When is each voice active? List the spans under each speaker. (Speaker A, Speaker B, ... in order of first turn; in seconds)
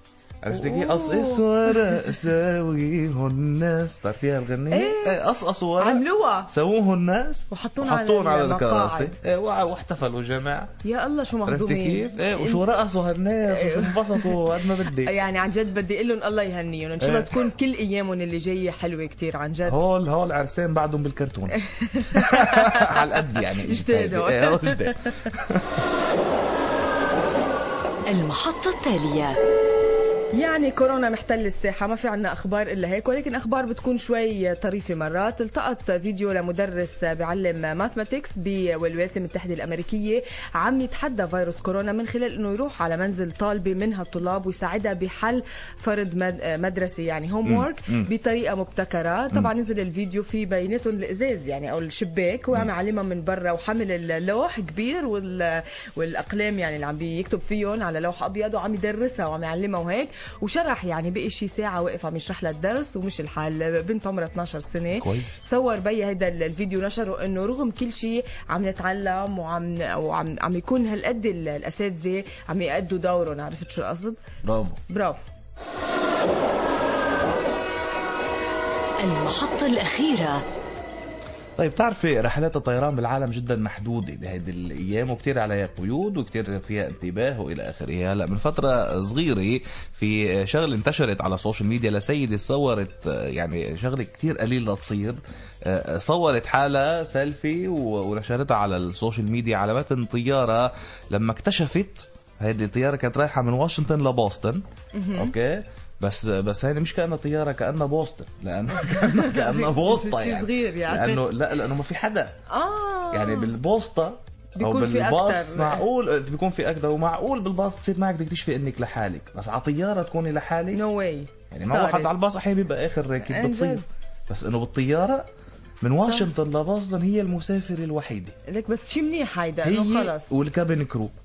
Speaker A: 0.4-10.7, 11.4-15.2, 17.0-17.5, 19.6-25.8, 47.4-48.1, 64.9-65.3, 74.4-74.8, 81.6-104.6, 105.1-112.3, 113.1-120.8, 121.5-125.3, 125.8-128.3, 129.6-131.1
Speaker B: 0.5-2.2, 4.7-5.2, 5.8-6.5, 7.5-9.2, 10.8-12.6, 13.4-19.8, 21.5-25.3, 30.3-74.2, 74.9-75.2, 104.9-105.3, 108.8-111.2, 112.5-113.5, 114.5-115.8, 120.7-122.1, 123.2-123.9, 126.0-126.3, 128.5-130.4
Speaker C: 28.1-29.4, 79.0-80.4